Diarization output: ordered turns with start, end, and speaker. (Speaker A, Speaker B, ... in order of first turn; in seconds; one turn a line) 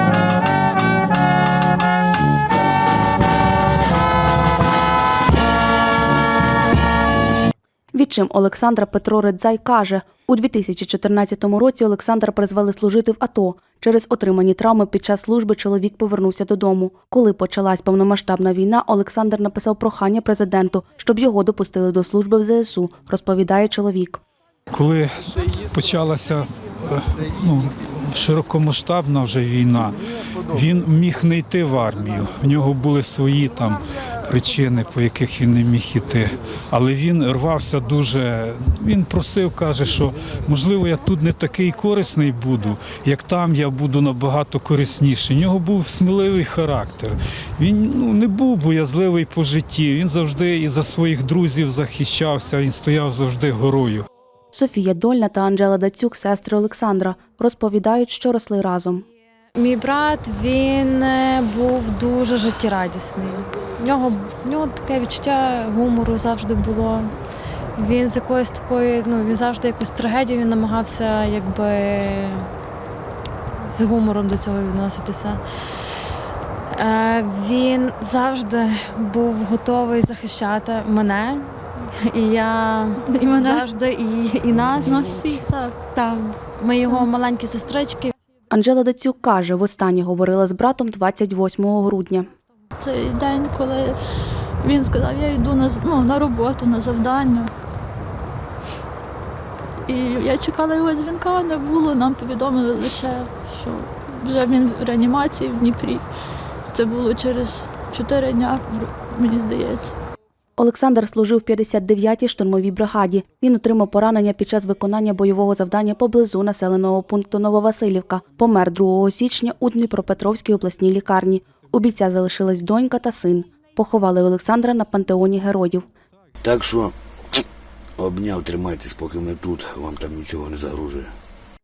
Speaker A: 7.9-24.2
Speaker B: 24.7-54.1
Speaker A: 54.5-59.0
Speaker C: 59.6-67.1
Speaker C: 67.8-72.5
Speaker C: 73.7-75.4
Speaker C: 76.7-88.1
Speaker D: 83.0-83.7
Speaker D: 84.6-85.8
Speaker A: 88.5-92.3
Speaker D: 92.8-94.0
Speaker D: 94.6-97.5
Speaker D: 99.9-106.0
Speaker D: 106.7-109.9
Speaker A: 110.6-125.9
Speaker E: 126.4-127.4
Speaker E: 128.0-131.1